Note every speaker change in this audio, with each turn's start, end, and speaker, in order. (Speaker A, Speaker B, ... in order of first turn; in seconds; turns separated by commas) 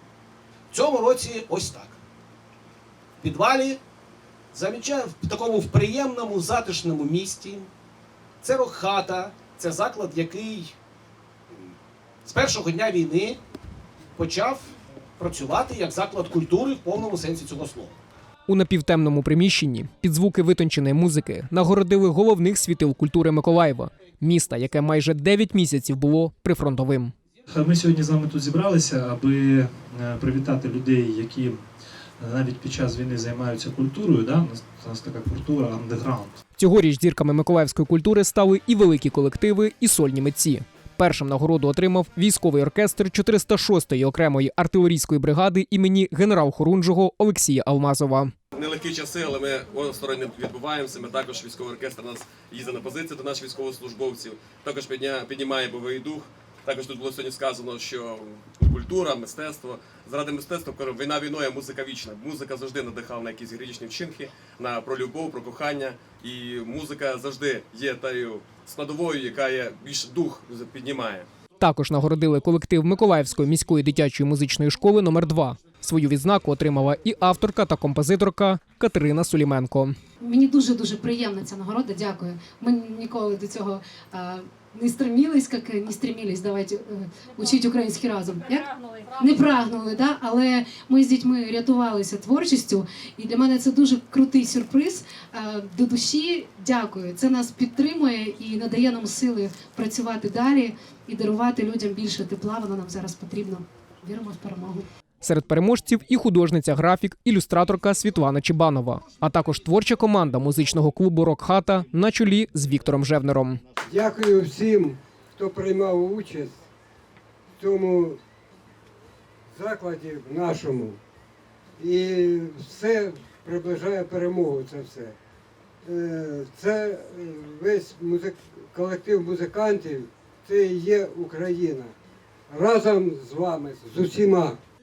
Speaker A: 0.7-2.0, Speaker A: 3.2-3.8, Speaker A: 4.5-7.7, Speaker A: 8.4-10.7, Speaker A: 12.2-13.4, Speaker A: 14.2-14.7, Speaker A: 15.2-17.9, Speaker B: 18.5-27.1, Speaker C: 27.5-31.6, Speaker C: 32.2-36.4, Speaker B: 36.6-48.3, Speaker D: 48.5-71.3, Speaker B: 71.6-80.0, Speaker E: 80.2-104.9, Speaker B: 105.2-113.6, Speaker F: 113.8-116.6, Speaker F: 117.6-118.2, Speaker F: 119.5-121.0, Speaker F: 121.8-125.1, Speaker F: 125.8-131.9, Speaker F: 132.5-134.6